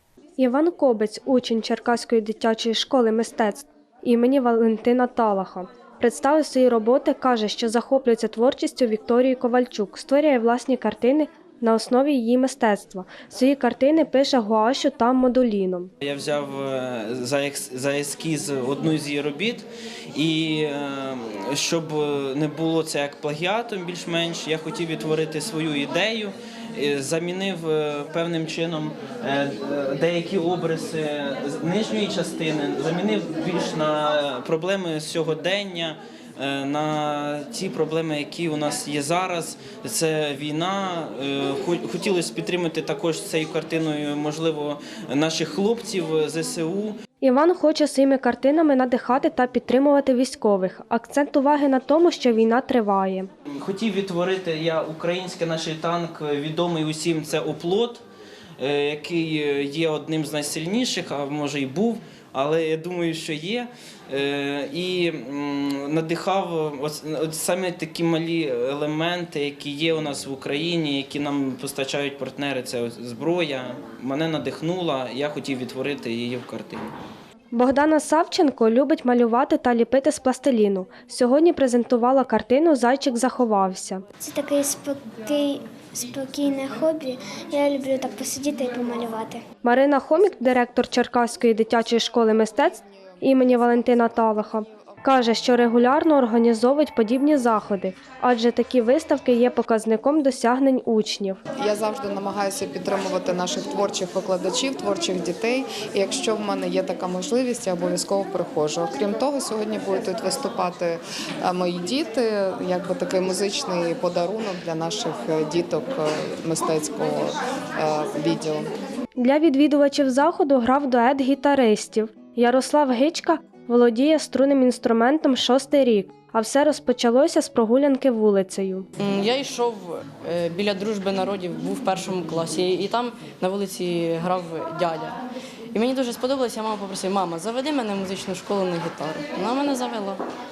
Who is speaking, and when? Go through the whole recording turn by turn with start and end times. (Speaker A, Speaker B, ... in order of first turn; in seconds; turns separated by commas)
Speaker A: 0.4-15.9, Speaker B: 16.0-47.0, Speaker A: 47.2-53.3, Speaker B: 53.5-58.0, Speaker B: 58.6-76.9, Speaker A: 77.5-84.0, Speaker C: 84.2-89.4, Speaker A: 89.6-101.4, Speaker D: 101.6-118.7, Speaker A: 119.2-128.8, Speaker E: 129.0-135.2, Speaker E: 135.7-140.2